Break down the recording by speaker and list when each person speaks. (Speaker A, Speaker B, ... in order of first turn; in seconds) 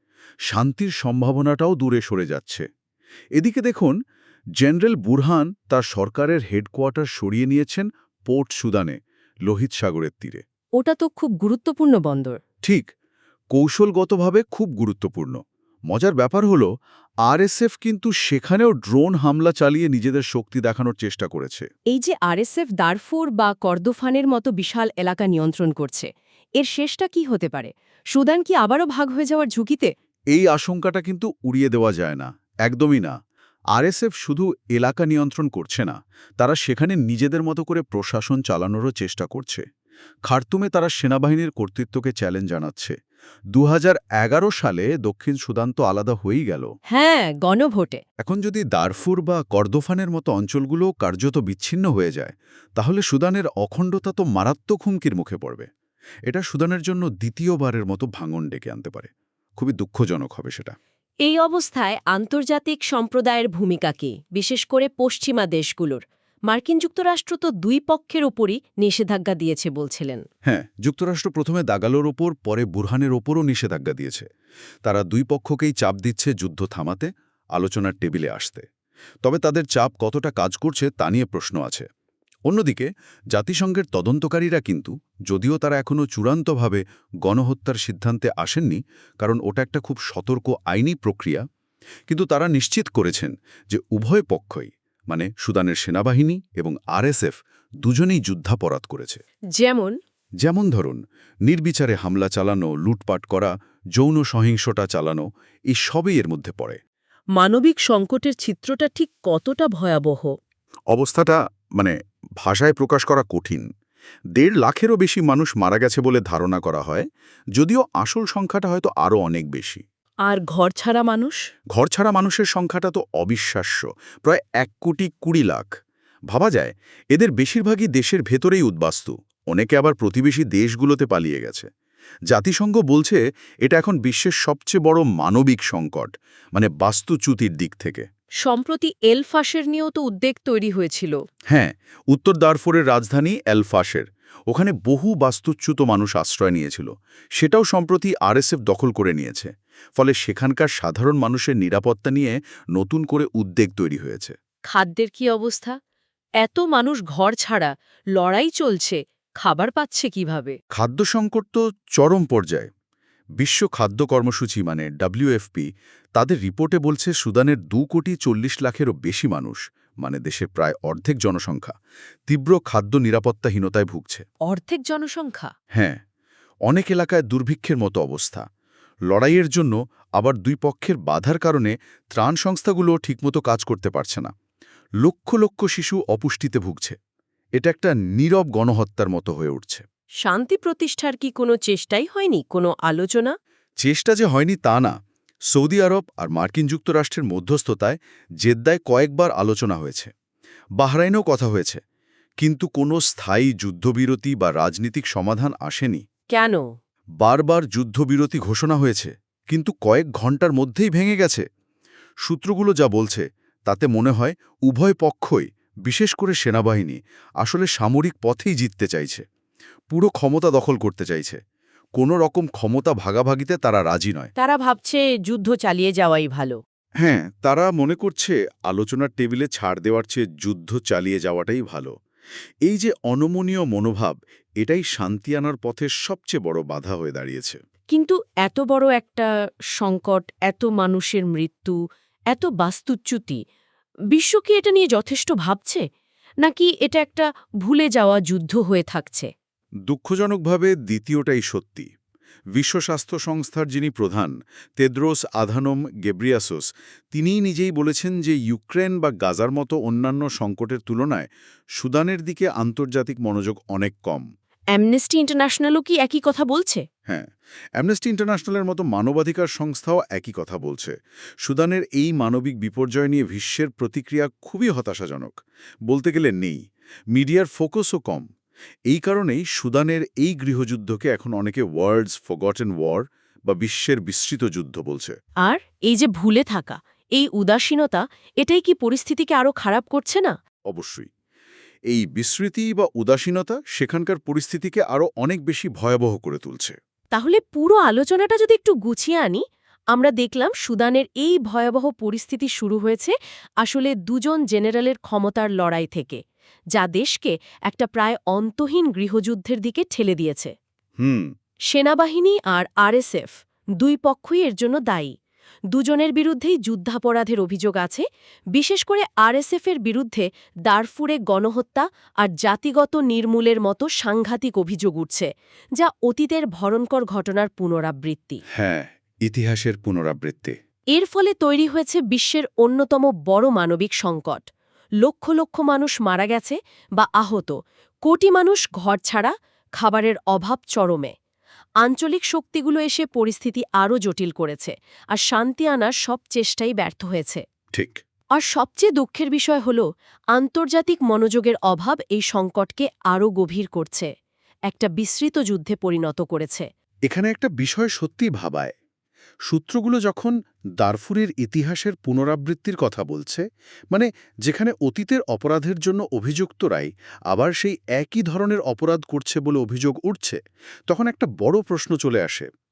Speaker A: 0.5-2.6, 3.4-4.0, 4.6-10.4, 13.5-15.4, 15.9-16.7, 17.2-21.6, 30.3-33.1, 33.7-39.6, 40.3-43.0, 43.5-46.7, 48.2-55.7, 56.3-60.8, 70.4-74.2, 74.8-78.6, 79.2-81.8, 82.5-91.4, 92.1-99.2, 100.4-106.8, 110.9-113.7, 114.3-119.8, 121.7-125.7, 126.3-131.7, 132.3-138.0, 141.5-154.3, 160.7-162.7, 163.4-171.7, 172.3-174.2, 175.7-176.0, 176.7-178.4, 179.1-184.3, 185.0-186.9, 187.6-189.8, 193.8-194.9, 195.5-200.1, 200.8-201.8, 202.4-206.0, 207.2-211.4, 212.2-219.2, 219.9-221.4, 221.9-224.3, 227.0-231.9, 232.6-237.6, 249.9-251.9, 252.5-264.2, 267.1-275.4, 275.9-276.6, 277.1-278.2, 278.9-285.1, 290.7-291.1, 291.9-296.7, 311.0-311.3, 328.5-330.5, 347.7-348.0, 357.1-358.7, 359.5-372.5
Speaker B: 10.8-12.4, 21.9-29.9, 46.9-48.0, 61.2-70.2, 99.5-99.9, 107.3-110.3, 120.2-121.4, 138.4-141.2, 154.7-155.8, 156.4-160.6, 174.4-175.5, 190.2-193.3, 206.3-206.6, 224.4-226.6, 237.9-241.8, 242.3-243.4, 244.1-245.8, 246.4-249.3, 264.7-266.8, 285.4-290.3, 297.1-306.2, 306.7-310.5, 311.7-315.1, 315.7-318.0, 318.5-328.4, 330.9-334.5, 335.0-341.1, 341.8-347.4, 348.3-354.1, 354.7-356.7